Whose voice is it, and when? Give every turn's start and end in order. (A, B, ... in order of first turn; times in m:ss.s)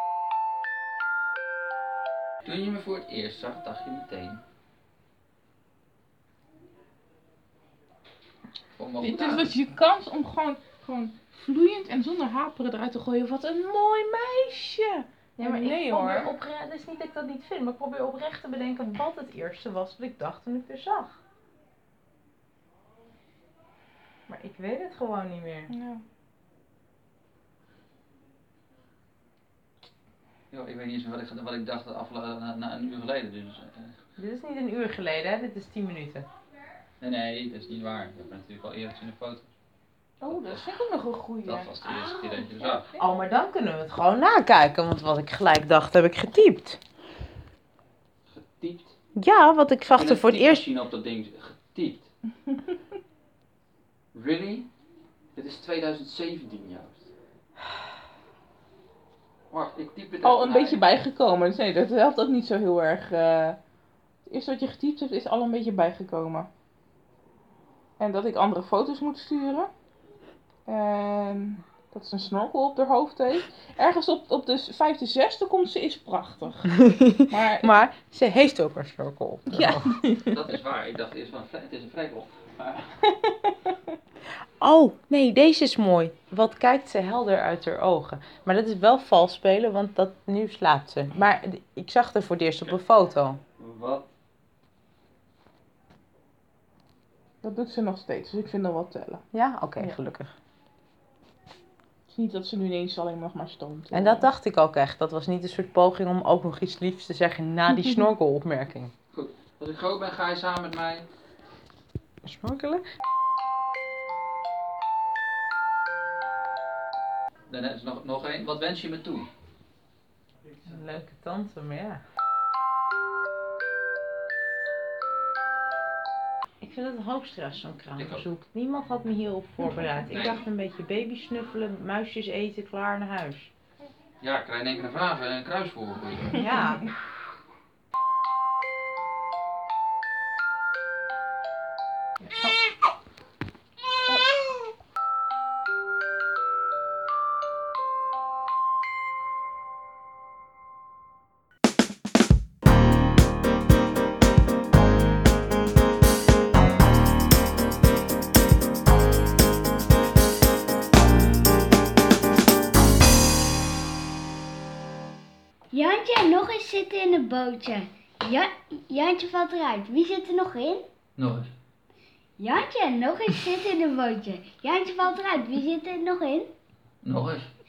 0:02.4-0:04.4 A
0:08.8-0:09.5 A
0:09.0-0:16.3 B
0:15.4-0:21.2 C
0:24.3-0:25.7 C
0:25.7-0:26.0 B
0:30.5-0:33.9 A
0:34.2-0:36.3 C
0:37.0-0:39.5 A
0:40.2-0:42.8 B
0:40.3-0:40.7 A
0:41.4-0:42.9 A
0:43.0-0:46.8 C
0:48.3-0:48.9 A
0:49.2-0:50.6 C
0:49.9-0:52.1 A
0:54.1-0:54.7 A
0:55.4-0:57.0 A
0:59.5-1:00.8 A
1:00.2-1:03.6 B
1:04.3-1:06.5 B
1:08.0-1:09.7 B
1:10.7-1:16.6 B
1:16.8-1:20.0 C
1:17.3-1:17.8 B
1:19.5-1:20.4 B
1:20.3-1:22.8 A
1:24.6-1:33.4 C
1:33.6-1:34.0 A
1:37.4-1:39.2 B
1:39.3-1:40.3 C
1:42.1-1:44.3 B
1:43.9-1:48.9 C
1:49.1-1:51.1 A
1:52.2-1:52.8 C
1:57.5-1:59.3 A
2:00.6-2:02.0 C
2:06.6-2:13.5 C
2:08.0-2:08.3 A
2:10.1-2:10.4 A
2:14.2-2:16.4 A
2:16.4-2:16.8 C
2:45.7-2:50.8 D
2:51.2-2:51.5 A
2:52.4-2:56.4 D
2:57.0-2:57.5 A